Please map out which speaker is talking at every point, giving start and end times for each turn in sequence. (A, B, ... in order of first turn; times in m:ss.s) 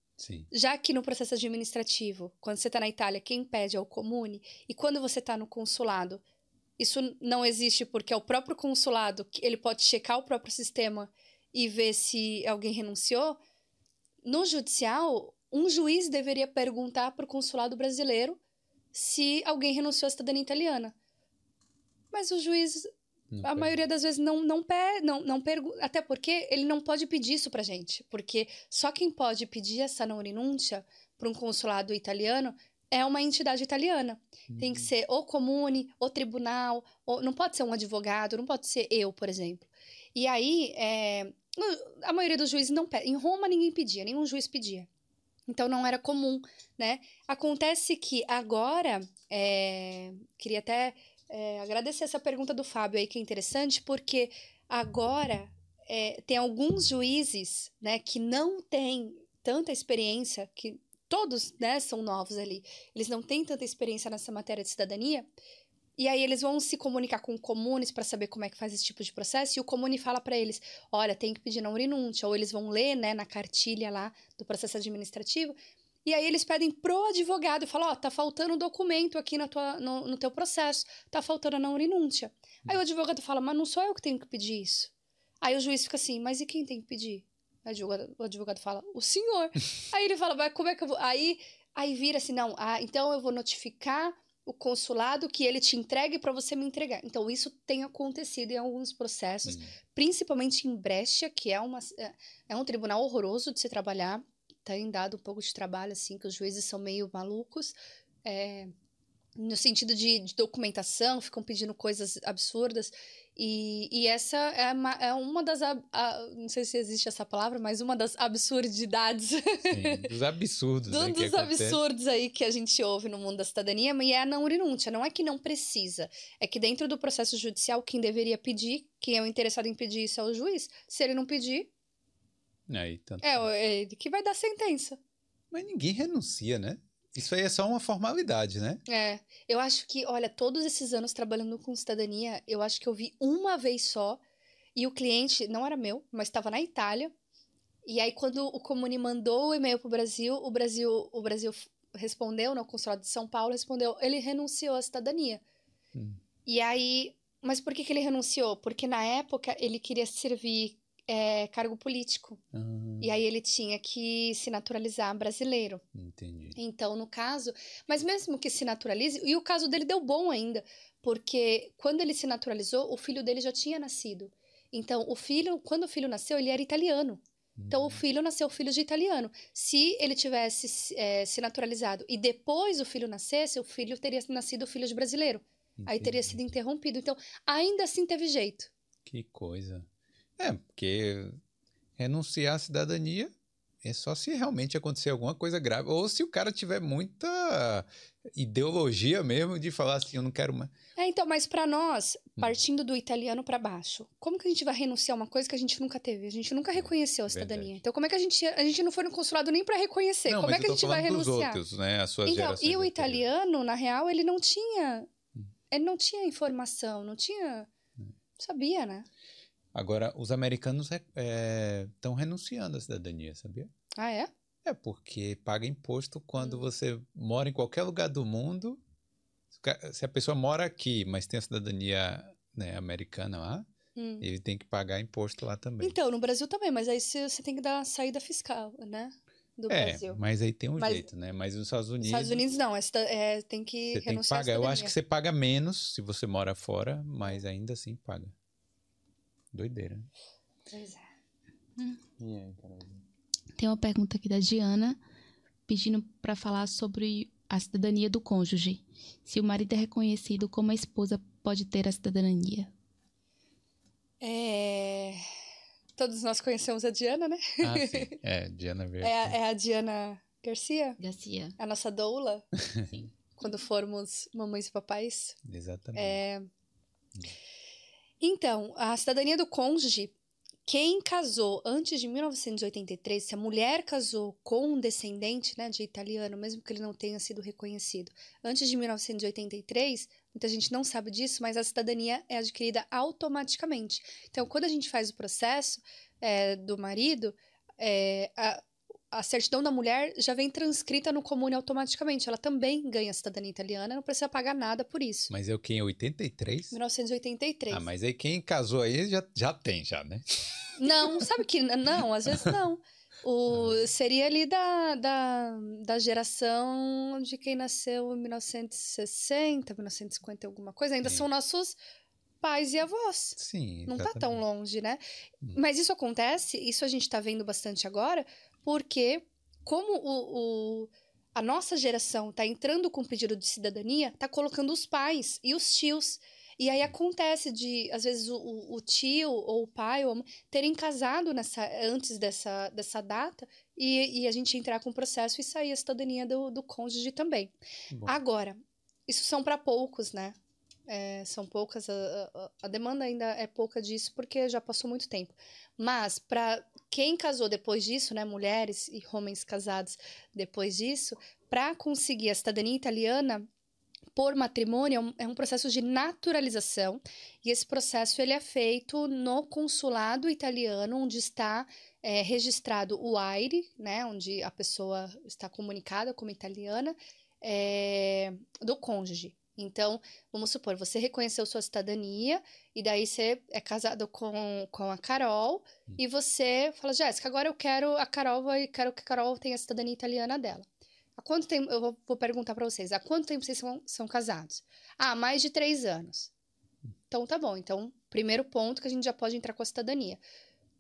0:00.2-0:00.5 A
0:00.5-0:06.2 B
0:06.8-0:13.4 B
0:14.2-0:18.4 B
0:18.9-0:21.0 B
0:22.1-0:22.9 B
0:23.3-0:23.8 A
0:23.4-0:44.9 B
0:34.5-0:34.9 A
0:45.5-1:05.3 B
1:06.0-1:48.7 B
1:39.5-1:39.8 A
1:49.4-2:00.1 B
1:59.7-2:01.8 A
2:00.9-2:11.7 B
2:12.7-2:13.5 A
2:13.2-2:15.0 B
2:15.5-2:18.8 A
2:18.9-2:24.2 B
2:24.8-2:27.1 B
2:27.8-2:35.4 B
2:36.0-2:36.2 A
2:36.5-2:42.4 B
2:42.5-2:43.1 A
2:43.0-2:45.8 B
2:46.0-2:46.6 A
2:46.6-3:08.7 B
2:57.6-2:58.0 A
3:05.8-3:06.4 A
3:09.1-3:09.9 A
3:10.4-3:11.4 A
3:12.0-3:13.3 A
3:13.8-3:20.7 A
3:21.0-3:31.6 B
3:26.8-3:27.7 A
3:30.3-3:33.2 A
3:32.3-3:35.1 B
3:35.7-3:37.7 B
3:38.4-3:39.1 B
3:39.7-3:43.7 A
3:44.0-3:44.3 B
3:44.6-3:48.8 A
3:46.4-3:46.6 B
3:49.5-3:53.7 A
3:54.0-3:54.3 B
3:54.2-3:56.0 A
3:55.8-4:00.2 B
3:59.7-4:02.4 A
4:00.8-4:01.1 B
4:02.0-4:04.9 B
4:03.9-4:08.3 A
4:09.5-4:10.1 A
4:10.7-4:11.1 B
4:12.2-4:13.0 A
4:13.6-4:15.0 C
4:15.7-4:22.7 C
4:24.2-4:25.2 B
4:26.0-4:28.2 B
4:27.6-4:29.3 A
4:29.0-4:31.0 B
4:31.0-4:31.6 C
4:31.6-4:32.5 B
4:32.6-4:33.0 A
4:33.4-4:35.4 B
4:35.4-4:36.2 A
4:36.0-4:36.5 B
4:38.2-4:40.1 B
4:40.7-5:05.3 B
5:05.3-5:06.8 A
5:06.7-5:07.9 B
5:07.7-5:10.8 A
5:10.8-5:21.8 B
5:13.5-5:13.8 A
5:22.4-5:25.0 B
5:23.4-5:24.4 A
5:25.5-5:47.5 B
5:47.9-5:48.2 A
5:48.1-6:03.5 B
6:04.1-6:36.3 B
6:37.1-6:40.2 B